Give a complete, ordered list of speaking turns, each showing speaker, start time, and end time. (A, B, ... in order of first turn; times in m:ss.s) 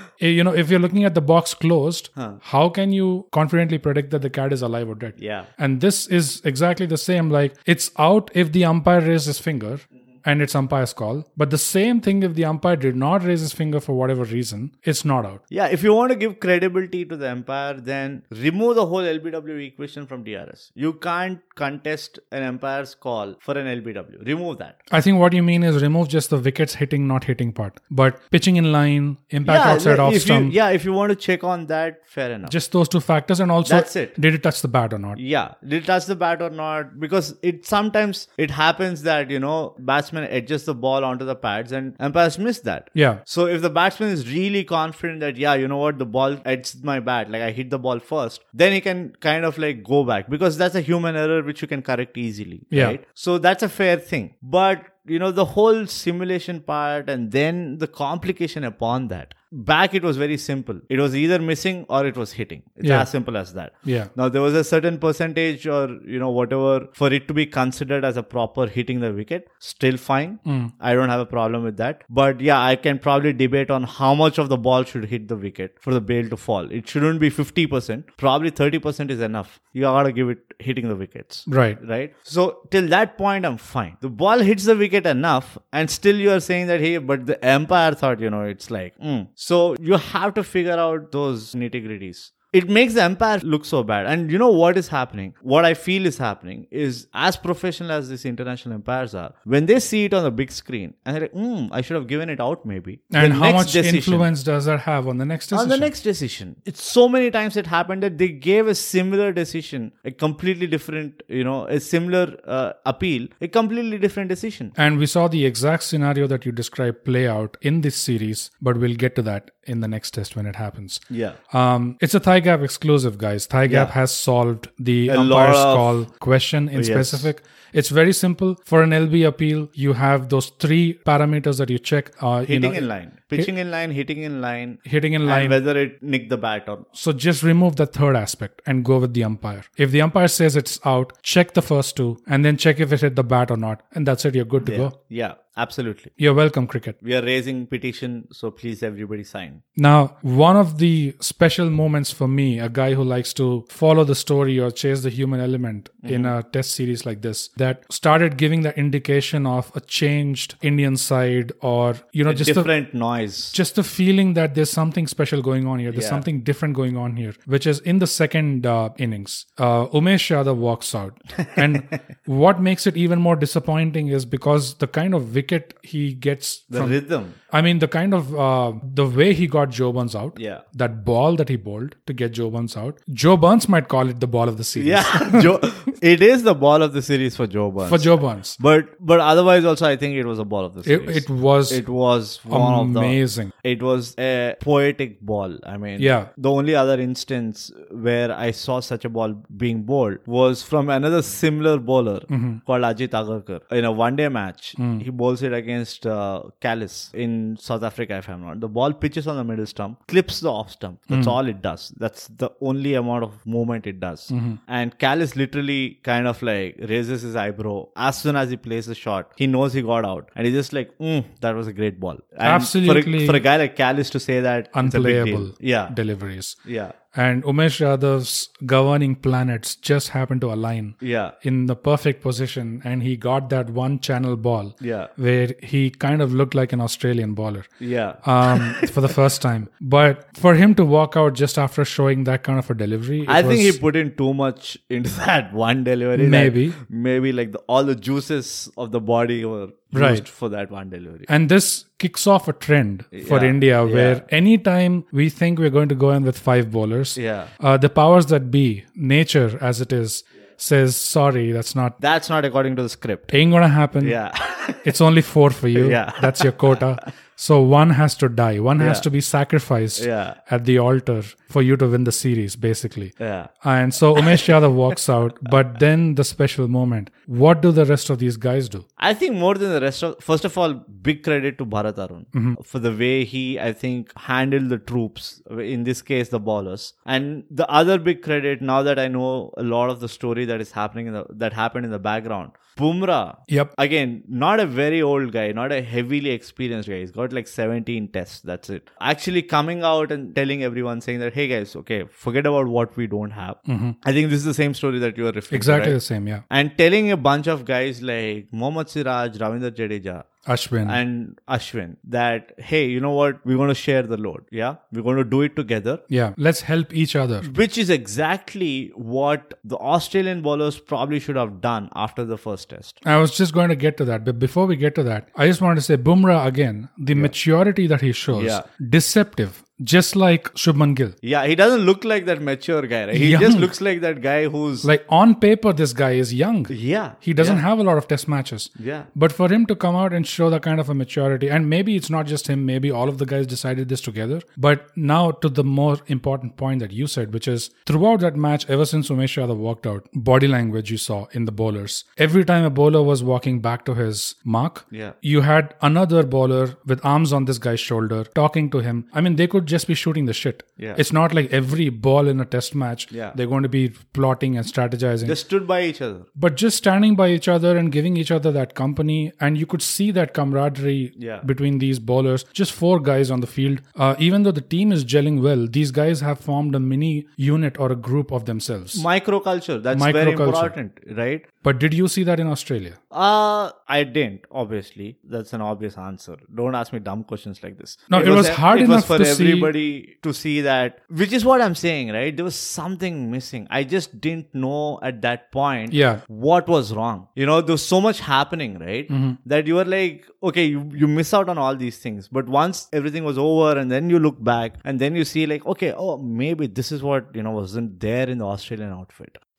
0:00.2-0:15.4 A
0:02.1-0:02.4 B
0:05.2-0:05.5 B
0:15.5-0:24.8 B
0:24.9-0:30.5 A
0:29.4-0:32.5 B
0:32.5-0:35.2 A
0:33.6-0:34.2 B
0:35.2-1:44.3 B
0:42.9-0:43.2 A
0:52.7-0:53.0 A
1:02.8-1:03.1 A
1:03.8-1:04.1 A
1:10.4-1:10.7 A
1:21.5-1:21.8 A
1:43.1-1:45.9 A
1:45.5-1:54.7 B
1:54.8-2:12.8 A
2:01.1-2:01.4 B
2:03.7-2:03.9 B
2:05.1-2:06.0 B
2:06.7-2:07.3 B
2:12.4-2:16.8 B
2:14.8-2:15.6 A
2:16.9-2:24.9 A
2:24.6-2:26.1 B
2:26.2-2:27.0 A
2:27.0-2:29.6 B
2:29.8-2:42.7 A
2:36.0-2:36.3 B
2:42.3-2:43.6 B
2:43.5-2:57.0 A
2:45.9-2:46.2 B
2:51.5-2:52.0 B
2:56.7-2:57.4 B
2:57.5-3:05.6 A
3:00.4-3:00.6 B
3:04.8-3:45.9 B
3:07.8-3:08.6 A
3:10.8-3:11.8 A
3:12.5-3:13.5 A
3:16.0-3:16.3 A
3:22.3-3:22.6 A
3:24.8-3:25.0 A
3:31.1-3:31.4 A
3:34.3-3:34.6 A
3:42.4-3:43.4 A
3:44.7-3:46.6 A
3:46.6-3:46.9 B
3:47.1-3:57.7 A
3:51.0-3:51.3 B
3:54.8-3:55.1 B
3:57.8-3:59.1 B
3:58.2-4:03.8 A
4:03.2-4:11.3 B
4:06.2-4:06.8 A
4:09.9-4:10.2 A
4:11.3-4:22.0 A
4:13.1-4:14.2 B
4:17.2-4:17.5 B
4:22.0-4:23.3 B
4:23.3-4:24.2 A
4:24.0-4:24.9 B
4:24.8-4:38.8 A
4:25.7-4:26.8 B
4:28.8-4:29.0 B
4:30.0-4:30.4 B
4:33.2-4:33.5 B
4:34.1-4:34.9 B
4:39.0-5:06.0 B
4:42.3-4:42.6 A
5:03.7-5:04.0 A
5:05.5-5:06.4 A
5:06.5-5:10.2 B
5:10.4-5:11.0 A
5:10.8-5:16.0 B
5:16.1-5:17.5 A
5:17.4-5:23.0 B
5:23.0-5:31.1 A
5:28.3-5:28.6 B
5:31.2-5:34.9 B
5:33.1-5:33.7 A
5:34.8-6:05.4 A
5:36.7-5:37.6 B
5:38.8-5:39.1 B
6:03.1-6:03.4 B
6:05.2-6:06.3 B
6:06.4-6:19.0 A
6:11.2-6:11.4 B
6:18.9-6:21.4 B
6:19.9-6:20.7 A
6:21.6-6:23.0 A
6:23.1-6:49.4 B
6:28.1-6:29.7 A
6:35.9-6:36.2 A
6:39.1-6:39.4 A